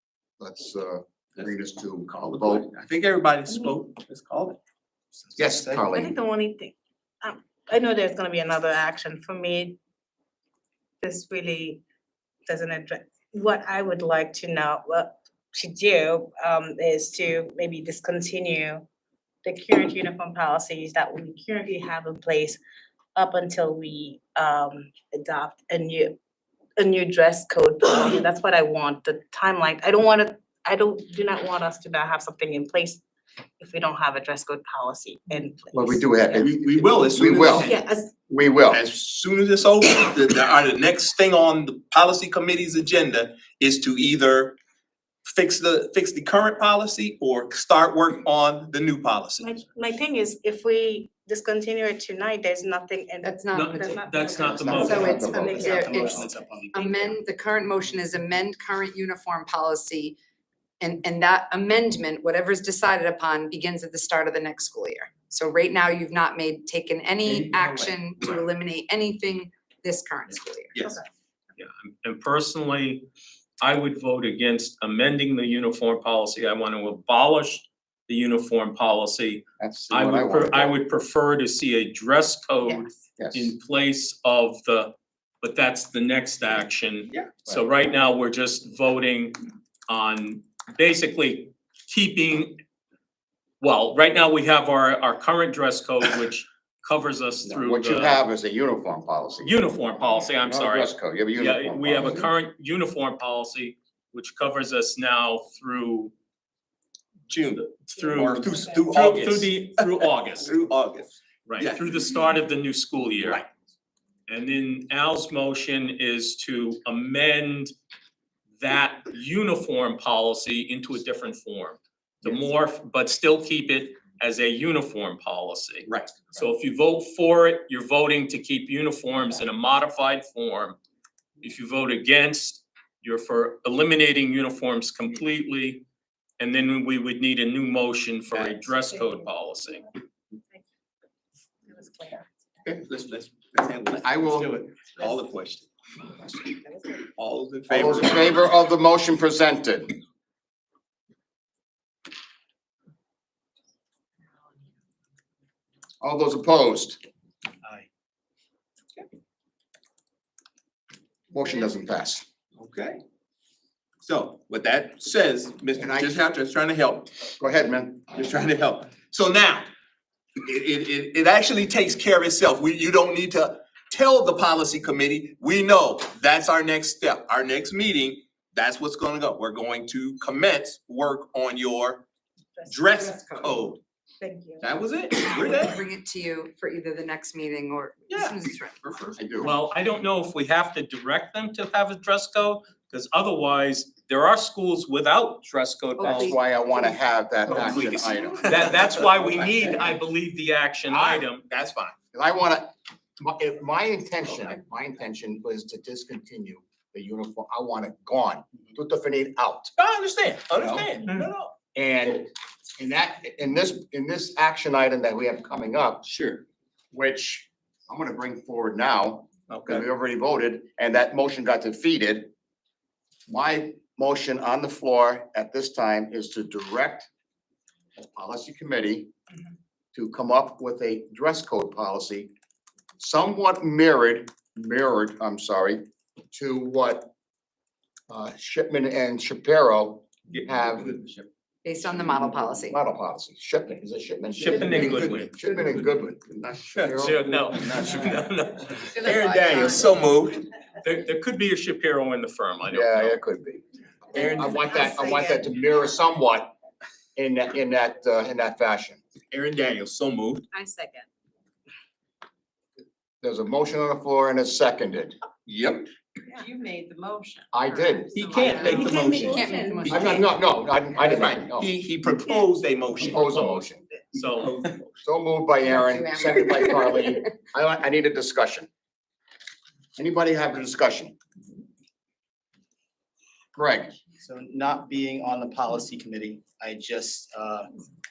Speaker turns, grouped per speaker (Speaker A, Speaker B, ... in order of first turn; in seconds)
Speaker A: 0.4-2.7, 5.3-6.1, 35.7-37.7, 38.3-38.8, 54.4-55.7, 79.6-80.8, 83.2-83.5, 97.4-102.3, 144.0-144.6, 147.7-149.9, 156.0-157.0, 161.3-162.2, 165.8-166.2, 167.4-168.1, 189.2-189.6, 196.0-198.7, 202.1-209.7, 211.7-216.1, 216.9-222.3, 223.3-227.1, 227.9-229.1, 229.9-232.3, 233.0-237.1, 238.1-240.9, 241.8-248.2, 252.7-256.5, 257.1-259.0, 263.2-265.2, 267.5-268.1, 269.9-271.7, 272.9-273.8, 275.0-278.7, 279.9-281.1, 283.5-283.9
Speaker B: 2.1-4.6, 5.6-6.0, 36.4-37.8, 38.7-44.6, 45.2-49.5, 87.1-87.4, 107.3-111.9, 125.9-126.4, 138.3-138.6, 142.6-145.7, 147.0-148.4, 162.6-163.0, 164.0-167.3, 168.1-169.7, 170.4-182.0, 182.7-183.8, 184.6-185.8, 188.1-189.2, 197.6-199.9, 200.9-201.9, 209.8-211.5, 216.0-216.4, 240.8-241.2, 244.4-245.3, 248.9-250.4, 254.1-254.6, 259.3-260.5, 265.5-265.9, 268.1-270.2, 271.0-273.3, 274.4-274.9
Speaker C: 5.9-9.8, 11.0-11.8, 12.5-18.8, 19.4-22.6, 23.1-26.2, 26.8-33.0, 33.6-36.5, 37.6-38.1, 49.4-56.9, 140.3-140.6, 141.7-142.3, 146.5-147.0, 184.2-184.7, 268.6-269.9
Speaker D: 53.2-54.0, 54.8-60.2, 60.8-70.8, 182.9-183.6, 185.3-188.9, 196.0-197.0, 241.6-242.8, 248.8-249.9, 254.1-255.3, 268.3-270.3, 275.6-277.3
Speaker E: 53.5-55.1, 71.6-73.0, 73.6-92.6, 93.6-98.2, 99.4-106.1, 107.9-110.5, 111.5-113.4, 114.3-117.7, 118.6-130.8, 131.4-135.8, 136.4-139.8, 189.4-196.4, 198.4-201.4, 219.5-219.8, 244.3-245.3, 247.0-249.0, 250.8-253.2, 273.2-274.6
Speaker F: 54.7-57.2, 284.2-287.7